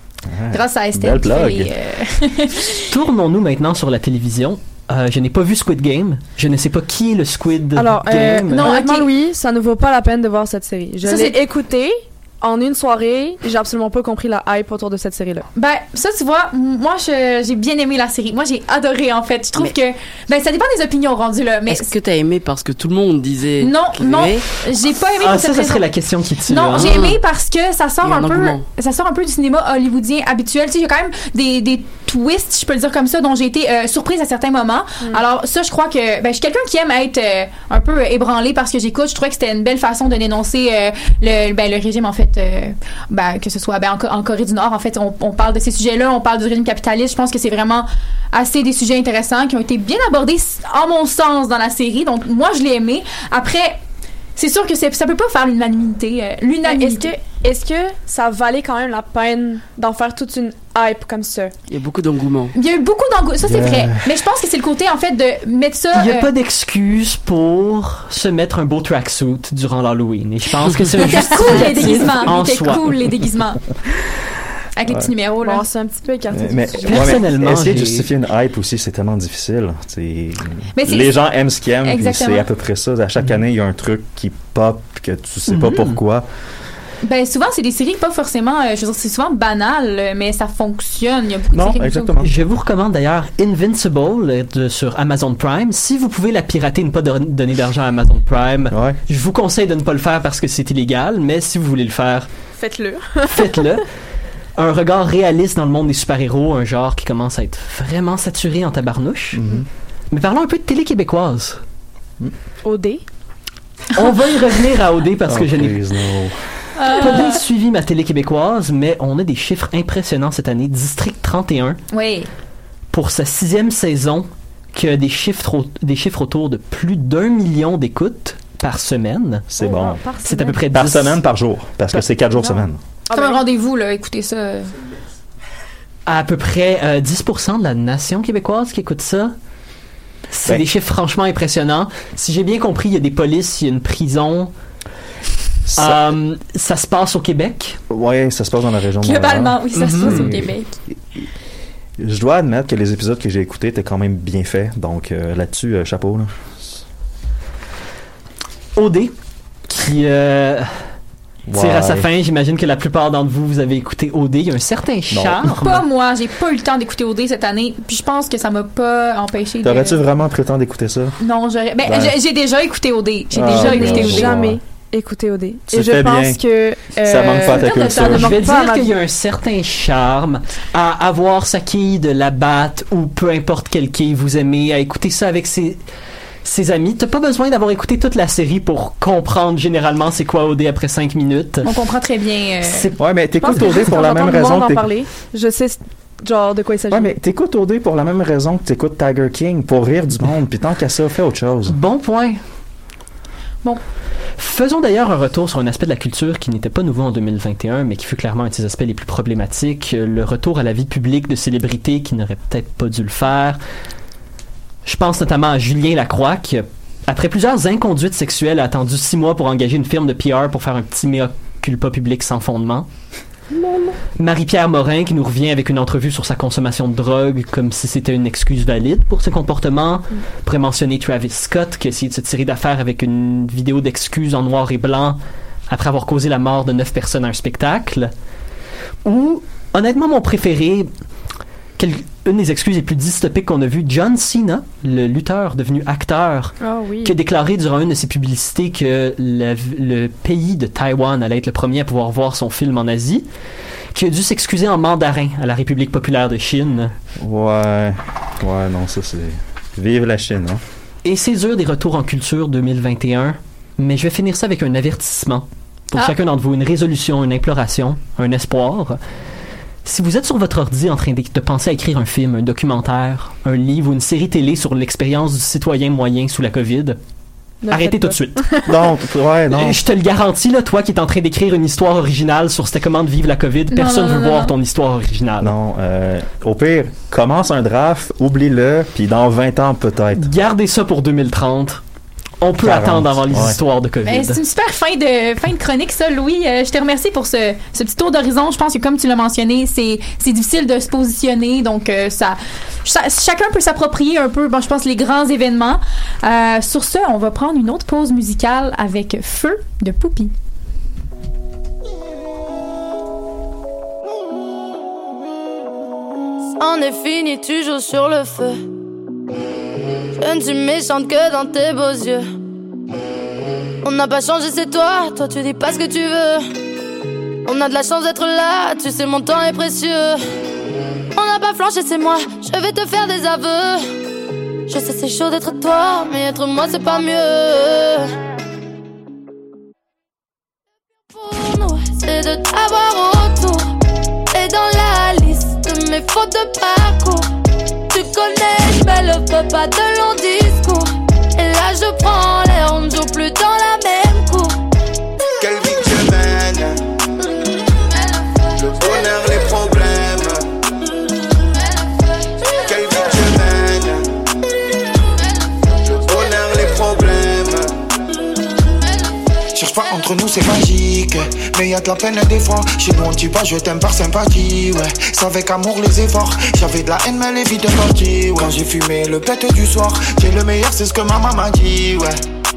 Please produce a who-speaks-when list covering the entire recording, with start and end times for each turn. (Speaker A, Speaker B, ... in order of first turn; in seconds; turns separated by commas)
Speaker A: 0.3-1.7, Speaker B: 0.5-2.8, Speaker C: 2.9-8.8, Speaker D: 7.8-15.4, Speaker B: 8.6-9.1, Speaker B: 11.0-11.4, Speaker B: 15.6-21.9, Speaker E: 21.7-24.4, Speaker B: 23.6-25.9, Speaker C: 25.2-27.0, Speaker B: 26.5-53.8, Speaker E: 26.8-27.2, Speaker E: 28.0-28.6, Speaker B: 54.4-57.1, Speaker D: 56.6-61.5, Speaker E: 61.7-62.5, Speaker B: 62.5-66.3, Speaker A: 63.4-64.2, Speaker C: 65.9-72.8, Speaker B: 71.1-73.6, Speaker B: 74.8-75.6, Speaker D: 75.4-77.2, Speaker A: 76.3-86.2, Speaker C: 76.9-78.1, Speaker B: 80.8-81.1, Speaker B: 81.8-82.5, Speaker C: 85.5-86.0, Speaker B: 87.0-92.2, Speaker A: 91.5-92.3, Speaker C: 92.2-102.3, Speaker A: 98.7-99.0, Speaker D: 102.6-103.5, Speaker C: 103.3-103.8, Speaker C: 104.6-109.4, Speaker A: 109.3-109.7, Speaker C: 110.1-111.6, Speaker D: 112.6-113.0, Speaker C: 114.0-115.8, Speaker A: 115.3-116.4, Speaker B: 116.8-117.4, Speaker C: 117.0-121.8, Speaker B: 121.9-122.3, Speaker C: 122.9-129.5, Speaker A: 129.5-130.0, Speaker D: 129.5-130.7, Speaker C: 130.2-131.2, Speaker A: 130.7-132.8, Speaker D: 133.1-133.4, Speaker B: 133.1-134.7, Speaker C: 136.1-139.3, Speaker C: 140.3-144.5, Speaker A: 145.7-146.1, Speaker C: 145.8-147.8, Speaker A: 147.9-150.5, Speaker B: 149.0-150.8, Speaker C: 149.7-150.3, Speaker A: 152.0-156.8, Speaker C: 158.8-159.1, Speaker C: 159.7-160.9, Speaker A: 161.5-162.1, Speaker C: 161.6-165.8, Speaker A: 165.1-165.6, Speaker B: 165.6-170.0, Speaker A: 169.6-171.2, Speaker B: 171.2-174.3, Speaker A: 171.8-172.2, Speaker A: 173.3-174.6, Speaker D: 173.4-178.9, Speaker A: 175.7-176.4, Speaker A: 177.0-178.4, Speaker B: 177.3-178.2, Speaker C: 178.1-185.8, Speaker C: 186.4-191.7, Speaker B: 191.6-192.9, Speaker C: 192.7-193.0, Speaker A: 193.0-194.9, Speaker D: 193.4-197.1, Speaker A: 196.9-201.8, Speaker C: 201.7-202.4, Speaker C: 204.4-213.6, Speaker C: 214.8-222.9, Speaker D: 223.5-223.9, Speaker C: 224.2-235.2, Speaker C: 235.7-238.1, Speaker C: 239.1-240.9, Speaker C: 241.8-253.2, Speaker D: 246.6-247.2, Speaker C: 253.9-256.9, Speaker A: 257.2-260.6, Speaker C: 261.0-269.0, Speaker C: 269.9-277.0, Speaker D: 277.6-278.8, Speaker C: 277.7-278.5, Speaker A: 278.7-279.8, Speaker C: 279.5-285.5, Speaker B: 283.7-284.5, Speaker A: 285.4-290.3, Speaker C: 290.2-291.8, Speaker C: 292.4-294.4, Speaker A: 292.6-293.6, Speaker B: 294.1-310.3, Speaker F: 316.6-318.6, Speaker F: 320.2-322.3, Speaker F: 323.8-326.5, Speaker F: 327.5-330.2, Speaker F: 331.1-333.9, Speaker F: 334.7-338.1, Speaker F: 341.1-343.7, Speaker F: 344.3-347.3, Speaker F: 347.9-354.6, Speaker G: 355.4-356.8, Speaker G: 358.6-360.5, Speaker G: 362.6-364.1, Speaker G: 365.9-367.7, Speaker G: 369.5-382.2